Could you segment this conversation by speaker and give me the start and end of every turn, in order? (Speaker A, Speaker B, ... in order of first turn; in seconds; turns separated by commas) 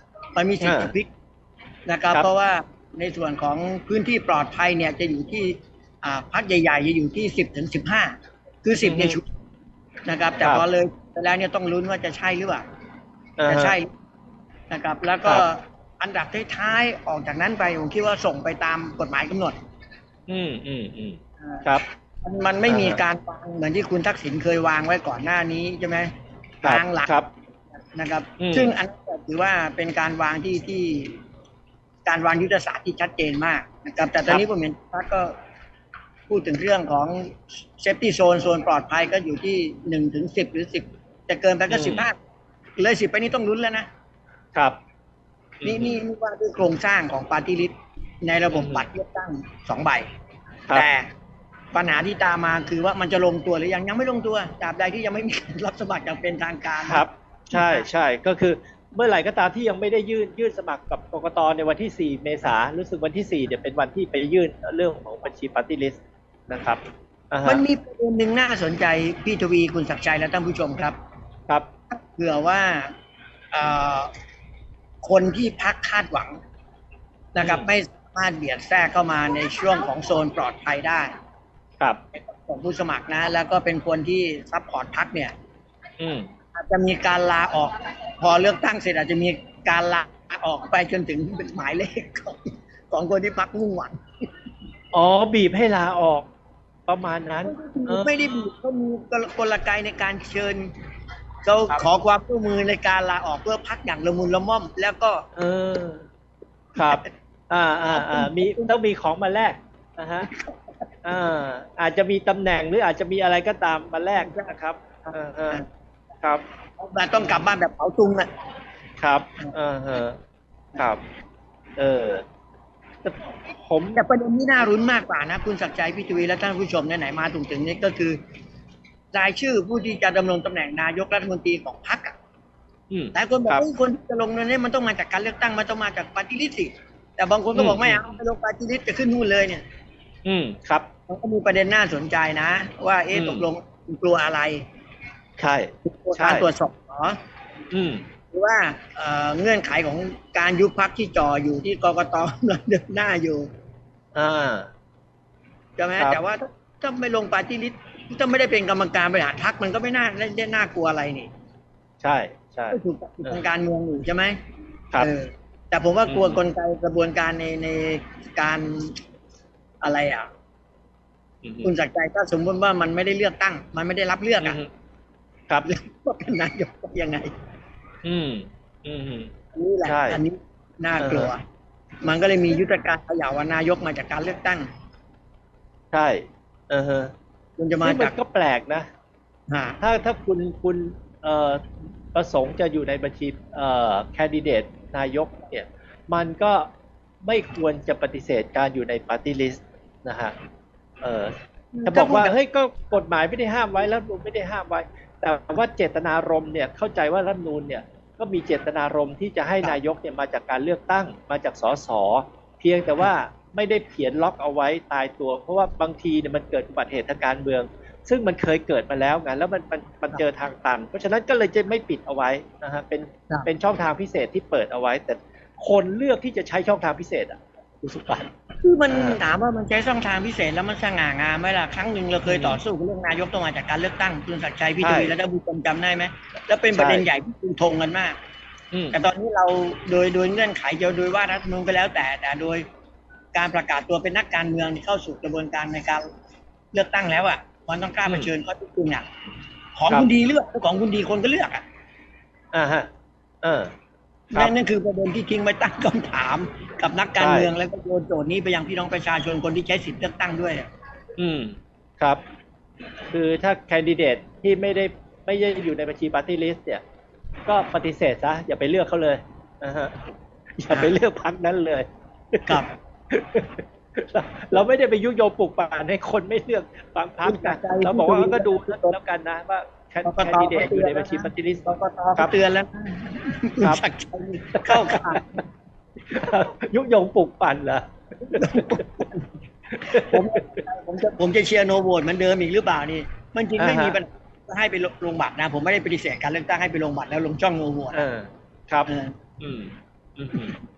Speaker A: 0.4-1.1, Speaker B: 0.6-0.9, Speaker A: 1.9-9.2, Speaker B: 8.8-9.2, Speaker A: 10.1-12.6, Speaker B: 13.4-13.8, Speaker A: 13.5-13.9, Speaker A: 14.7-19.6, Speaker B: 20.3-21.9, Speaker A: 22.2-26.1, Speaker B: 22.7-23.0, Speaker A: 26.6-27.1, Speaker B: 26.6-27.3, Speaker A: 27.9-31.2, Speaker B: 28.4-28.8, Speaker A: 32.0-35.4, Speaker A: 36.3-42.2, Speaker B: 41.7-42.1, Speaker A: 42.8-43.9, Speaker B: 45.6-46.0, Speaker A: 45.6-50.1, Speaker B: 48.5-48.9, Speaker A: 50.7-51.1, Speaker A: 51.7-57.9, Speaker B: 56.8-67.6, Speaker A: 67.5-71.0, Speaker A: 72.2-72.9, Speaker A: 73.5-74.1, Speaker A: 75.0-76.4, Speaker A: 77.3-81.1, Speaker B: 77.4-77.7, Speaker A: 82.1-85.3, Speaker B: 86.0-86.3, Speaker A: 86.6-94.0, Speaker B: 94.9-96.3, Speaker B: 96.9-98.2, Speaker A: 97.5-100.7, Speaker A: 101.4-105.2, Speaker B: 105.3-106.1, Speaker B: 106.8-110.3, Speaker A: 106.8-107.0, Speaker A: 107.9-108.8, Speaker B: 111.0-115.7, Speaker A: 114.2-114.5, Speaker A: 116.8-118.3, Speaker B: 119.0-120.2, Speaker B: 121.8-122.2, Speaker B: 123.0-124.0, Speaker A: 124.0-128.2, Speaker A: 129.1-132.2, Speaker B: 132.9-133.7, Speaker A: 133.1-139.6, Speaker B: 137.6-138.0, Speaker B: 140.2-140.9, Speaker A: 141.1-144.7, Speaker B: 143.1-143.5, Speaker B: 145.4-146.5, Speaker A: 145.8-147.2, Speaker B: 147.7-148.1, Speaker A: 148.3-153.5, Speaker B: 154.2-154.7, Speaker A: 155.8-161.3, Speaker B: 162.0-163.4, Speaker A: 162.7-164.4, Speaker A: 165.0-169.0, Speaker B: 166.1-166.4, Speaker A: 169.8-170.3, Speaker B: 171.4-171.7, Speaker A: 171.6-174.6, Speaker B: 174.4-174.7, Speaker A: 175.6-177.3, Speaker B: 178.0-179.3, Speaker A: 179.5-181.4, Speaker B: 179.9-180.2, Speaker B: 181.0-181.3, Speaker A: 182.0-184.7, Speaker B: 185.9-187.1, Speaker A: 187.6-188.2, Speaker B: 187.8-188.9, Speaker A: 189.5-189.8, Speaker B: 189.8-196.7, Speaker B: 197.2-200.3, Speaker B: 201.0-201.3, Speaker A: 201.7-202.3, Speaker B: 201.9-228.3, Speaker A: 228.6-238.2, Speaker B: 228.9-229.2, Speaker B: 232.2-232.6, Speaker B: 234.8-235.2, Speaker B: 236.7-237.1, Speaker B: 238.7-239.0, Speaker A: 238.9-242.7, Speaker A: 243.3-246.1, Speaker A: 246.7-249.1, Speaker B: 248.1-248.3, Speaker A: 249.8-251.6, Speaker B: 252.5-252.9, Speaker B: 253.4-253.7, Speaker A: 254.3-260.7, Speaker B: 257.2-257.5, Speaker B: 261.2-262.2, Speaker B: 263.1-266.8, Speaker B: 267.5-270.0, Speaker B: 270.6-282.3, Speaker A: 277.2-279.0, Speaker A: 280.1-285.4, Speaker B: 284.6-285.4, Speaker B: 286.1-288.8, Speaker A: 288.3-289.2, Speaker B: 289.7-290.5, Speaker A: 289.9-298.1, Speaker B: 293.6-294.0, Speaker B: 297.9-300.6, Speaker A: 298.9-299.1